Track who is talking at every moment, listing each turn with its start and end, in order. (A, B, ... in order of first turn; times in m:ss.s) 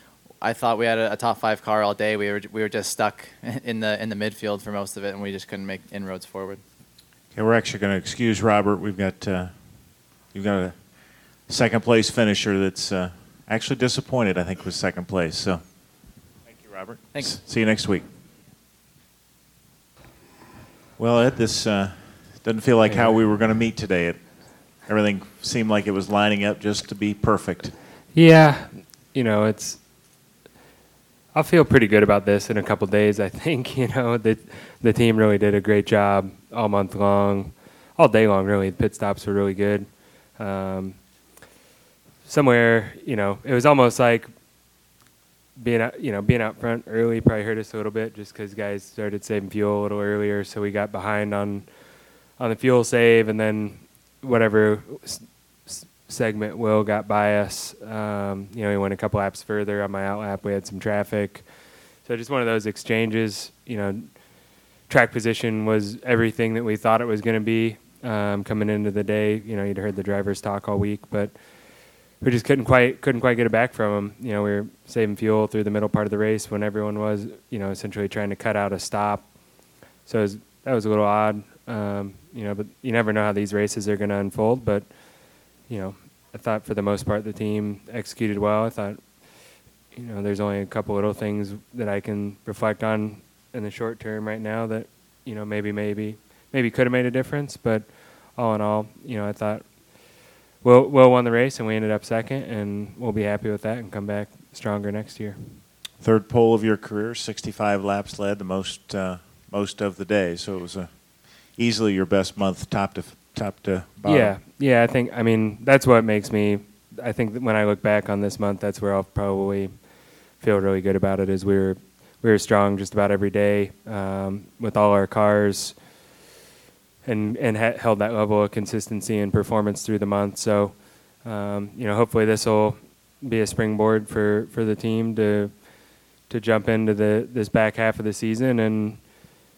0:00.4-0:06.6 A
0:07.3-0:15.6 B
0:16.5-0:18.0 B
0:17.1-0:17.4 A
0:21.0-0:27.8 B
0:22.9-0:23.3 C
0:28.1-0:29.8 C
0:31.3-0:41.0 C
0:42.2-0:44.3 C
0:45.6-0:51.7 C
0:52.4-1:01.4 C
1:02.0-1:04.2 C
1:04.9-1:11.4 C
1:12.2-1:19.3 C
1:20.0-1:24.9 C
1:25.6-1:29.2 C
1:29.9-1:45.6 C
1:46.0-1:54.4 B
1:54.0-2:05.8 C
2:07.0-2:19.2 C